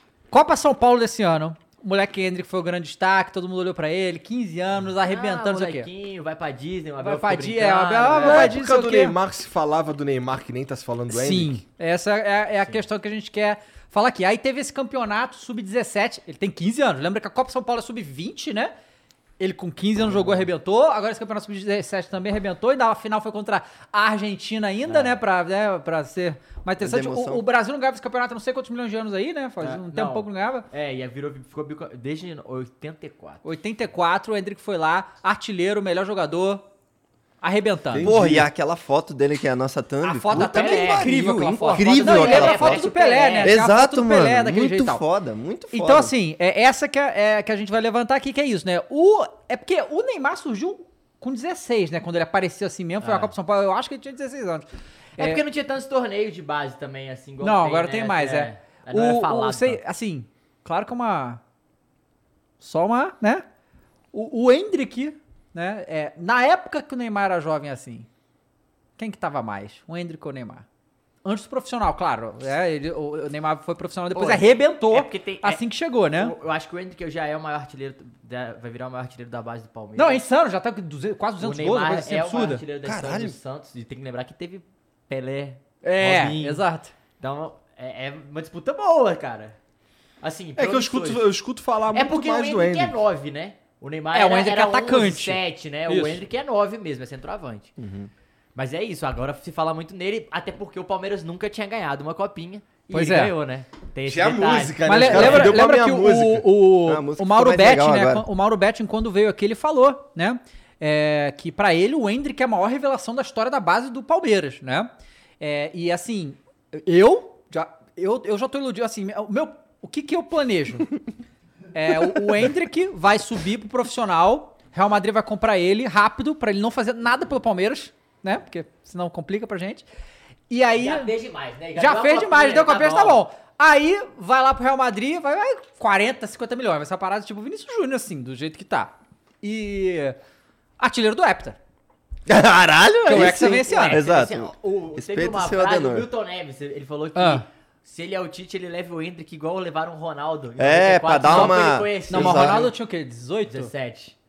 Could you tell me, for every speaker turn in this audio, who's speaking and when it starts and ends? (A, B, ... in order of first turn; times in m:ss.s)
0:00.3-0:05.9 A
0:05.0-0:08.5 B
0:07.0-0:09.2 A
0:08.2-0:11.6 C
0:11.1-0:18.7 A
0:19.4-0:30.6 A
0:24.9-0:25.2 B
0:26.8-0:27.4 D
0:29.6-0:33.4 B
0:33.4-0:36.6 A
0:37.4-0:38.1 A
0:37.9-0:38.5 C
0:38.0-0:42.9 D
0:40.0-0:45.0 A
0:40.3-0:41.1 B
0:41.7-0:43.5 B
0:43.4-0:46.1 D
0:45.7-0:54.6 A
0:53.0-0:53.3 B
0:55.2-0:59.8 B
0:57.4-1:01.4 A
1:02.6-1:03.4 A
1:04.1-1:08.1 A
1:09.0-1:10.6 A
1:11.2-1:16.3 A
1:14.1-1:20.2 B
1:20.0-1:22.6 A
1:21.4-1:26.6 B
1:22.8-1:23.3 D
1:25.8-1:26.9 A
1:27.2-1:29.6 B
1:30.2-1:31.3 B
1:30.6-1:33.0 C
1:31.9-1:37.7 B
1:34.1-1:36.2 A
1:37.8-1:38.1 D
1:38.5-1:45.6 B
1:42.9-1:43.3 A
1:44.0-1:46.4 C
1:44.8-2:00.9 A
1:46.8-1:48.2 D
2:01.7-2:09.8 A
2:10.5-2:11.1 A
2:10.8-2:13.2 B
2:11.8-2:20.2 A
2:20.8-2:21.6 A
2:22.3-2:26.1 D
2:23.0-2:24.0 A
2:23.7-2:32.7 B
2:27.2-2:27.4 A
2:30.6-2:32.7 D
2:31.2-2:31.6 A
2:32.1-2:33.7 A
2:33.5-2:34.1 B